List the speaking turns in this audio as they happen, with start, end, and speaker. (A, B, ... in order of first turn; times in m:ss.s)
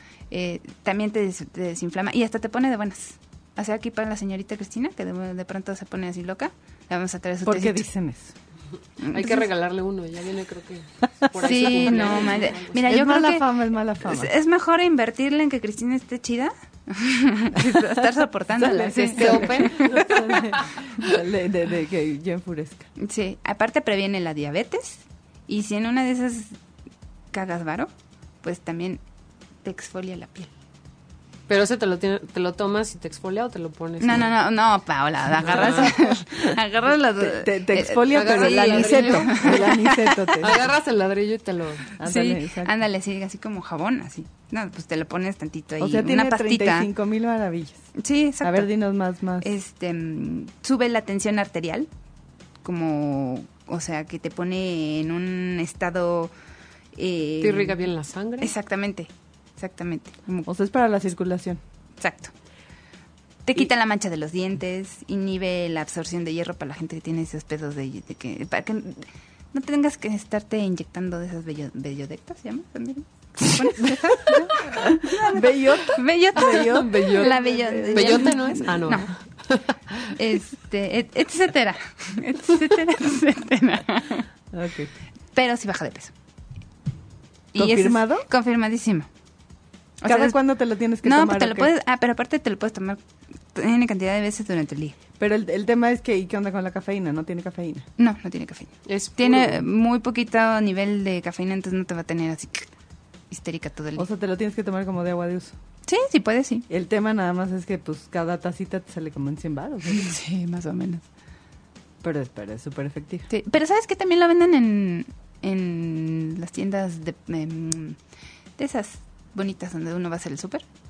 0:00.3-0:07.9 A
0:07.4-0:08.3 B
0:09.0-0:09.4 A
0:09.1-0:12.8 C
0:11.3-0:14.3 B
0:11.4-0:13.5 A
0:14.0-0:20.2 A
0:17.6-0:18.0 B
0:18.6-0:22.9 B
0:18.8-0:20.7 C
0:23.0-0:26.6 A
0:27.3-0:27.9 A
0:28.4-0:29.0 A
0:29.6-0:30.5 A
0:31.5-0:34.3 C
0:34.0-0:40.2 A
0:35.4-0:36.0 C
0:35.5-0:35.9 B
0:37.2-0:40.6 B
0:38.1-0:39.8 C
0:40.4-0:41.9 C
0:42.0-0:42.7 B
0:42.0-0:46.9 A
0:45.8-0:47.9 B
0:48.0-0:48.7 A
0:48.4-0:49.5 B
0:49.4-0:51.9 A
0:52.6-0:56.3 A
0:57.0-0:57.9 A
0:57.4-0:58.5 C
0:58.4-1:00.5 A
1:00.5-1:01.6 B
1:02.0-1:02.3 A
1:03.5-1:19.1 A
1:13.6-1:18.7 B
1:16.4-1:19.8 C
1:20.1-1:24.3 A
1:24.5-1:24.9 B
1:25.3-1:26.1 A
1:27.5-1:29.1 A
1:27.6-1:28.3 B
1:30.0-1:30.4 A
1:30.0-1:31.7 B
1:31.0-1:33.0 A
1:33.5-1:35.0 A
1:35.2-1:37.9 B
1:38.0-1:42.7 A
1:38.8-1:39.6 C
1:43.3-1:44.1 A
1:44.0-1:45.5 B
1:45.9-1:46.7 A
1:46.7-1:50.2 B
1:49.9-1:51.0 A
1:52.0-1:53.3 B
1:53.3-1:58.0 A
1:58.6-2:00.6 A